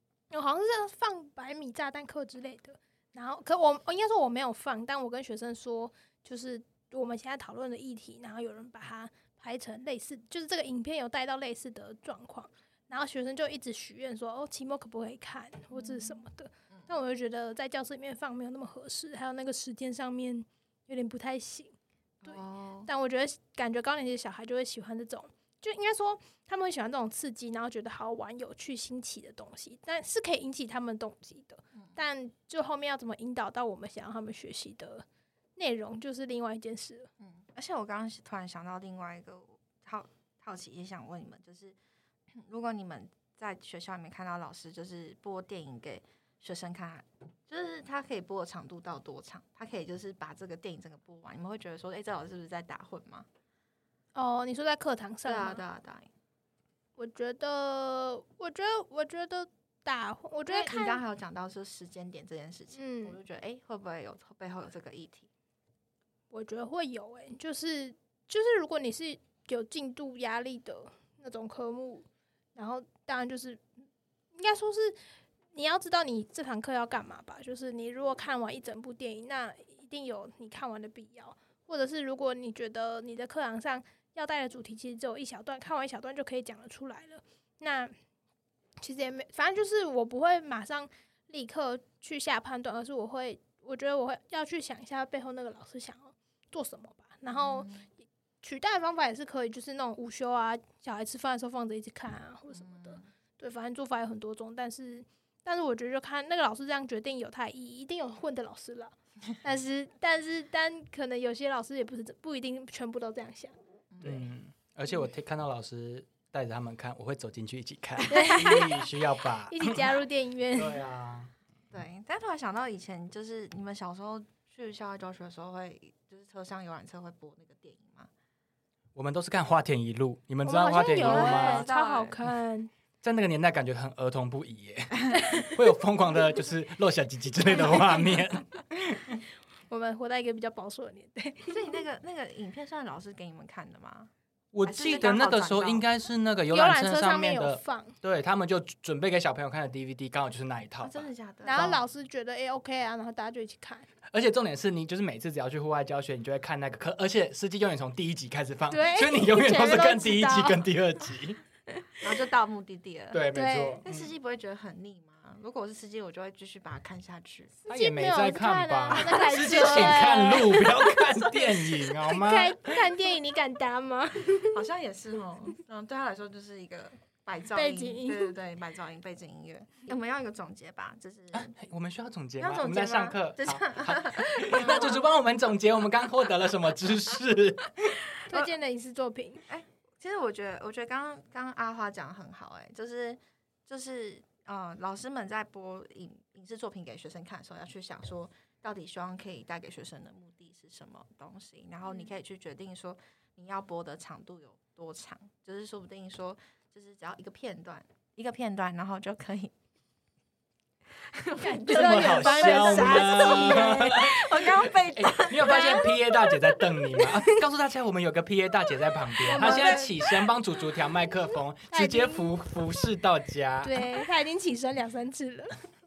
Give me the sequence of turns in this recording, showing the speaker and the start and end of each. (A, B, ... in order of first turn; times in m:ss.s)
0:00.3-0:21.8 A
0:15.7-0:16.9 B
0:22.2-0:22.9 B
0:22.3-0:35.1 A
0:35.6-0:37.1 A
0:37.2-0:41.8 B
0:42.3-0:53.3 B
0:54.2-0:55.6 A
0:55.2-0:56.1 B
0:57.0-1:01.0 A
1:00.5-1:05.3 B
1:02.7-1:03.2 A
1:06.3-1:13.6 A
1:14.4-1:15.0 A
1:15.5-1:27.9 A
1:28.8-1:37.7 A
1:37.3-1:37.9 B
1:38.4-1:53.6 A
1:42.5-1:43.1 B
1:53.9-1:54.3 B
1:54.0-1:59.9 C
1:58.1-1:58.9 A
1:59.5-2:00.8 A
2:00.5-2:01.3 C
2:01.7-2:08.1 B
2:09.0-2:11.7 C
2:10.4-2:12.7 A
2:10.9-2:12.2 B
2:13.0-2:18.6 C
2:17.6-2:18.1 A
2:19.7-2:21.7 A
2:21.5-2:24.1 B
2:24.5-2:31.8 C
2:24.6-2:25.9 B
2:26.5-2:28.0 A
2:30.8-2:31.8 B
2:31.4-2:33.9 A
2:34.1-2:41.4 C
2:38.7-2:40.7 A
2:42.0-2:43.3 B
2:43.1-2:44.1 C
2:43.3-2:43.8 A
2:43.8-2:47.6 B
2:47.6-2:50.9 A
2:47.7-2:52.8 C
2:48.9-2:50.8 B
2:51.7-2:54.6 A
2:54.5-3:01.5 B
2:57.5-2:58.4 A
3:01.3-3:07.8 C
3:02.4-3:05.0 B
3:08.3-3:09.4 A
3:09.5-3:29.5 B
3:21.9-3:22.1 A
3:31.1-3:36.0 B
3:31.4-3:34.0 A
3:31.7-3:43.8 C
3:35.4-3:35.9 A
3:39.2-3:40.0 A
3:39.3-3:39.8 B
3:41.7-3:42.3 A
3:43.6-3:45.6 A